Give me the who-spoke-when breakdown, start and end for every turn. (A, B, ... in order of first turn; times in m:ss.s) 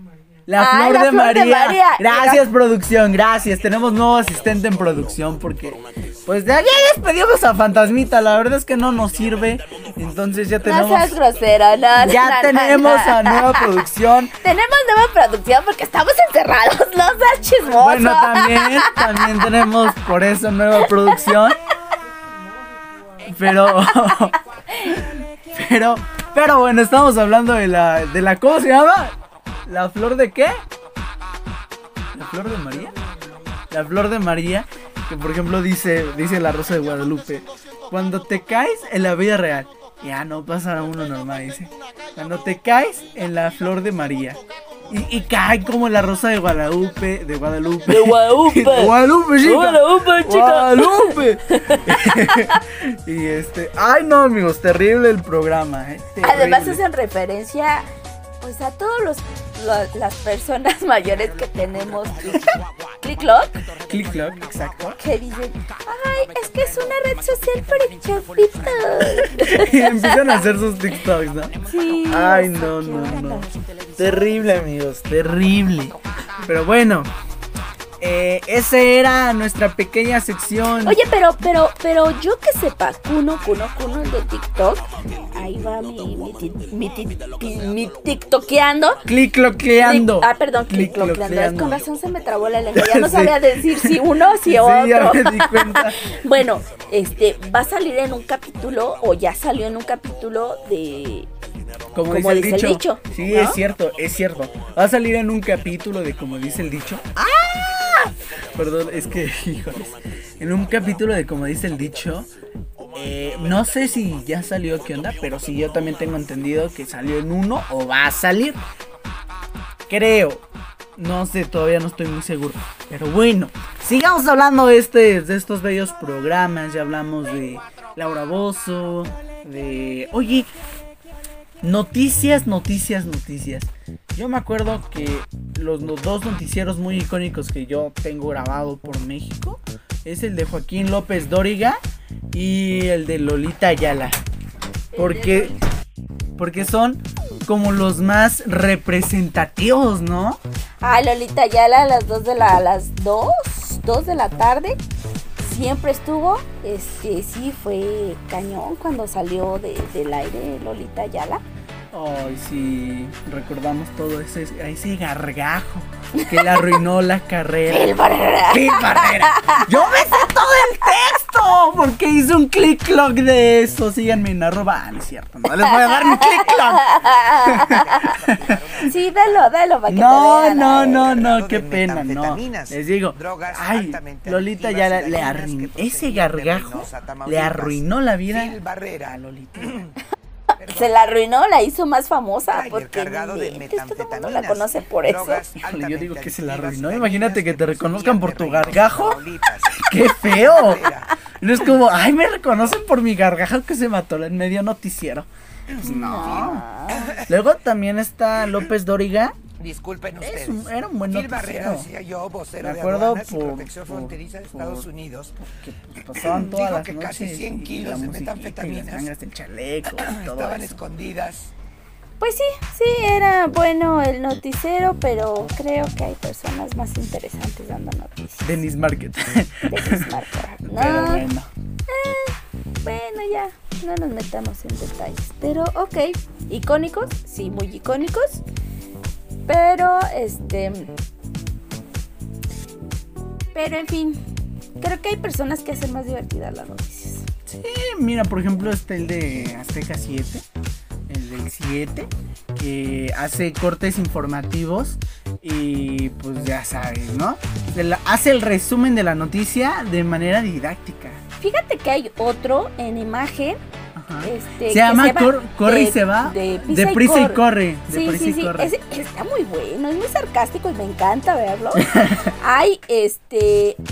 0:00.5-0:11.2 A
0:00.6-0:02.4 B
0:10.6-0:13.6 B
0:12.0-0:14.3 A
0:14.4-0:19.7 B
0:17.6-0:21.6 A
0:23.2-0:29.1 A
0:29.7-0:30.6 A
0:32.1-0:32.9 A
0:33.7-0:56.8 A
0:47.9-0:52.4 B
0:56.2-0:57.8 B
0:58.4-1:03.5 B
1:03.8-1:05.0 A
1:05.0-1:10.4 B
1:09.1-1:17.1 A
1:11.6-1:13.5 B
1:18.0-1:21.0 A
1:20.8-1:29.0 B
1:29.0-1:31.8 A
1:29.8-1:41.3 B
1:32.7-1:36.0 A
1:41.9-1:48.0 A
1:42.0-1:43.6 B
1:48.5-1:52.3 A
1:52.9-1:58.6 A
1:59.9-2:00.4 A
2:01.0-2:10.5 A
2:11.6-2:21.8 A
2:22.3-2:24.2 A
2:24.9-2:25.6 B
2:24.9-2:25.6 A
2:26.4-2:30.4 A
2:30.8-2:34.8 B
2:35.4-2:41.4 B
2:41.9-2:58.5 A
2:46.2-2:46.8 B
2:47.7-2:49.7 B
2:55.8-2:57.9 B
2:57.7-2:59.5 C
2:58.8-3:01.2 B
2:59.9-3:09.9 A
3:00.9-3:09.9 C
3:10.6-3:11.0 C
3:10.6-3:15.4 B
3:12.5-3:21.0 C
3:15.5-3:20.9 A
3:21.4-3:25.3 A
3:25.8-3:26.6 A
3:25.8-3:27.2 B
3:27.3-3:29.4 A
3:29.6-3:35.4 C
3:30.2-3:31.9 A
3:32.6-3:40.8 A
3:36.1-3:39.1 C
3:39.9-3:41.5 C
3:42.2-3:48.6 B
3:48.4-3:50.1 A
3:49.7-3:51.2 B
3:50.6-3:51.5 A
3:51.9-3:58.4 B
3:59.5-4:00.9 B
4:03.5-4:04.2 B
4:04.8-4:07.3 B
4:07.4-4:10.4 A
4:11.1-4:21.2 A
4:21.4-4:23.6 B
4:24.0-4:28.7 A
4:24.2-4:33.8 B
4:31.7-4:32.2 A